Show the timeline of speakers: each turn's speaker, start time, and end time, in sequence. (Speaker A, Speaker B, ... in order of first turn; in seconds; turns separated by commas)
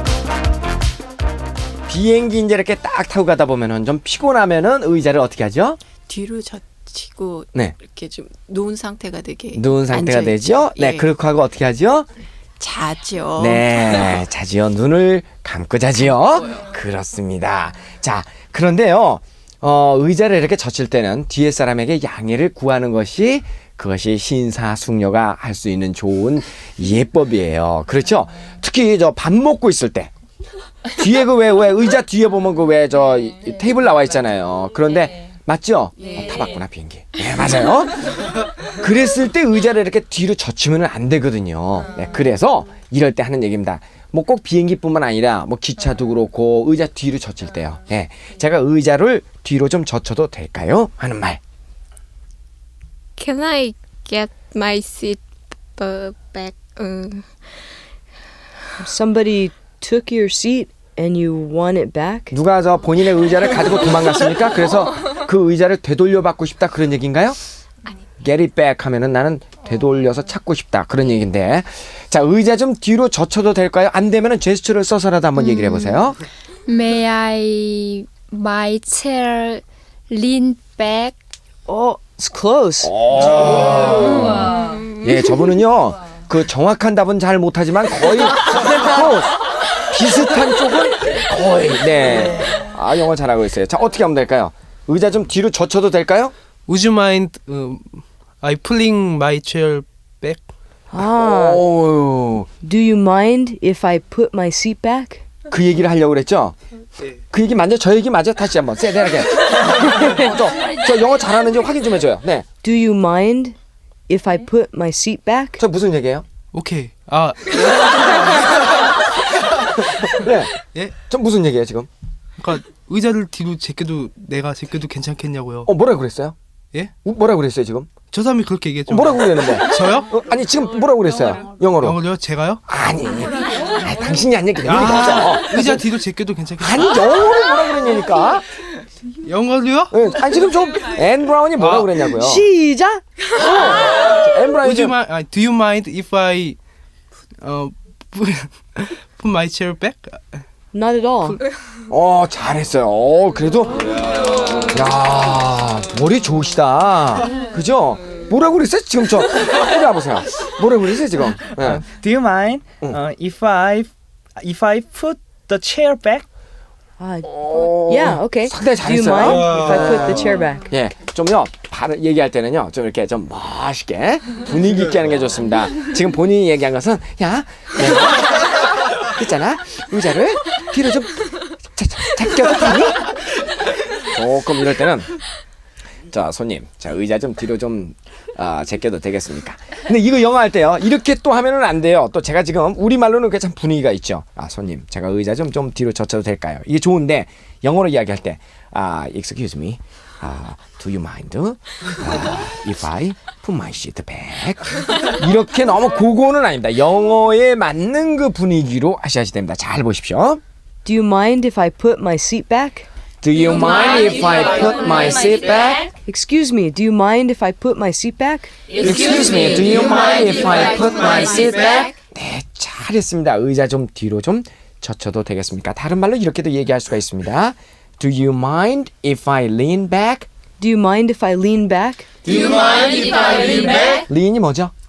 Speaker A: 1.9-5.8, Speaker B: 6.1-11.1, Speaker A: 9.5-12.1, Speaker B: 12.6-13.8, Speaker C: 13.2-13.6, Speaker A: 13.4-30.1, Speaker A: 30.9-51.4, Speaker D: 53.2-55.2, Speaker D: 55.7-57.3, Speaker E: 58.8-62.3, Speaker A: 62.3-67.4, Speaker A: 68.2-76.2, Speaker D: 75.4-76.0, Speaker D: 76.7-81.2, Speaker E: 81.7-82.9, Speaker A: 82.8-96.3, Speaker F: 96.7-100.4, Speaker E: 100.9-101.6, Speaker A: 101.2-102.5, Speaker E: 102.6-105.2, Speaker A: 105.5-106.5, Speaker A: 107.3-112.5, Speaker E: 112.6-113.5, Speaker E: 114.1-115.6, Speaker A: 115.6-116.2, Speaker F: 116.5-118.6, Speaker A: 120.0-121.9, Speaker F: 122.4-125.7, Speaker A: 125.7-126.3, Speaker A: 127.0-127.9, Speaker F: 128.1-130.1, Speaker A: 128.9-132.0, Speaker F: 131.8-132.6, Speaker A: 132.7-135.8, Speaker F: 134.6-136.9, Speaker A: 136.6-138.4, Speaker F: 139.2-139.9, Speaker A: 139.9-142.4, Speaker F: 141.6-141.9, Speaker E: 142.1-143.0, Speaker A: 143.3-145.0, Speaker F: 144.6-146.6, Speaker F: 147.4-150.4, Speaker E: 150.7-151.4, Speaker A: 151.9-154.1, Speaker A: 154.7-161.8, Speaker C: 161.6-166.2, Speaker E: 167.0-170.7, Speaker A: 167.2-183.2, Speaker F: 169.4-169.7, Speaker A: 184.0-185.1, Speaker A: 186.1-210.4, Speaker E: 210.8-212.9, Speaker A: 213.2-215.9, Speaker E: 216.0-218.5, Speaker A: 218.7-230.3, Speaker E: 230.6-232.4, Speaker A: 233.2-234.7